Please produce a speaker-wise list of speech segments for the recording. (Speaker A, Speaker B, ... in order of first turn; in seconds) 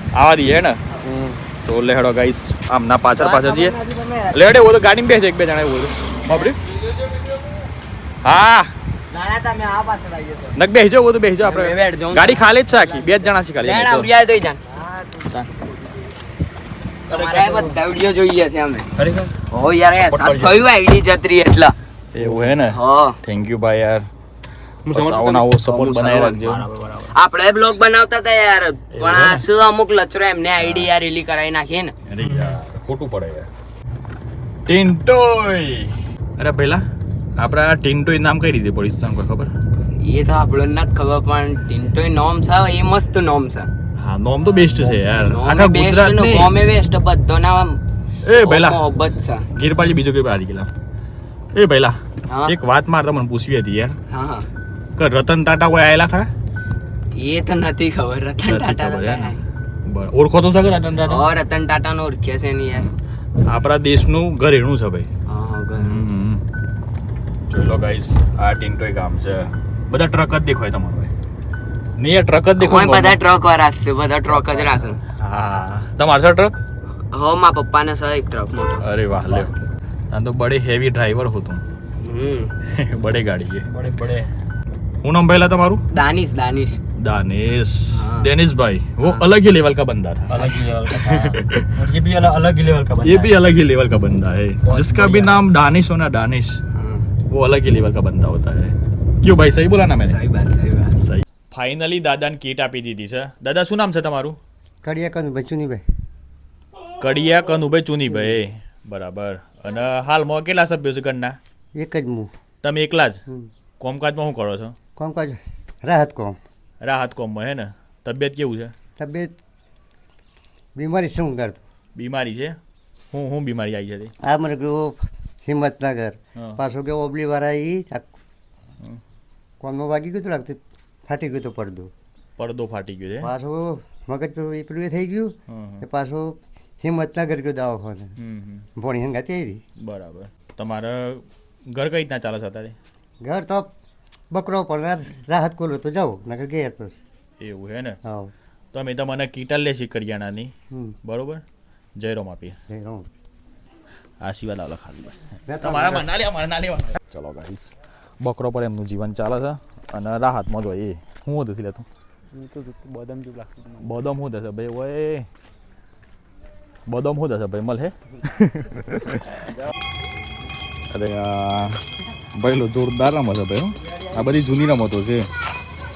Speaker A: 0.1-0.8, 1.6-3.8, 4.3-6.6, 8.2-8.7, 10.5-14.1, 22.1-24.0, 24.9-26.6, 28.9-29.4, 30.6-30.9, 32.1-33.5, 34.7-36.8, 37.4-39.5, 44.0-46.5, 48.2-48.8, 49.5-50.7, 51.5-54.0, 55.0-56.3, 58.4-59.3, 59.9-61.3, 63.5-65.1, 65.8-66.4, 67.5-71.1, 72.0-73.2, 74.3-74.7, 75.2-76.5, 78.8-79.5, 80.1-81.6, 82.7-83.7, 85.0-85.8, 87.0-91.7, 93.0-96.6, 97.3-100.2, 101.0-104.4, 107.0-111.4, 112.6-113.2, 113.8-114.8, 116.8-118.7, 122.0-122.6, 123.1-124.1, 132.4-133.3, 135.5-135.8, 138.2-138.7, 139.8-142.8, 147.4-148.0, 148.7-150.5, 151.0-151.4, 152.0-152.6, 154.2-161.8, 163.8-165.2, 166.9-169.4, 170.9-171.8, 172.3-175.2
Speaker B: 1.0-1.3, 104.8-105.8, 108.1-108.4, 111.7-112.3, 115.0-116.4, 119.0-119.3, 120.8-121.6, 124.2-128.1, 129.6-131.9, 133.2-138.1, 138.8-139.6, 143.2-143.7, 144.3-146.9, 148.0-148.3, 150.7-150.9, 152.7-153.1, 155.5-156.1
Speaker C: 3.2-4.4, 9.1-10.5, 11.4-14.7, 17.1-18.9, 19.5-21.8, 22.6-23.2, 25.6-26.5, 27.1-31.9, 40.0-43.7, 44.5-49.5, 52.3-52.5, 54.1-54.5, 57.1-59.4, 61.0-62.9, 65.3-66.0, 72.6-75.0, 77.1-78.8, 82.0-82.5, 85.9-86.8, 87.9-88.3, 96.7-97.1, 100.0-101.0
Speaker D: 17.1-17.8, 18.9-19.3, 20.0-20.7, 24.9-25.5, 26.4-27.1, 32.2-32.6, 79.2-79.5, 83.6-84.3, 90.3-93.4, 94.6-95.4, 162.3-164.0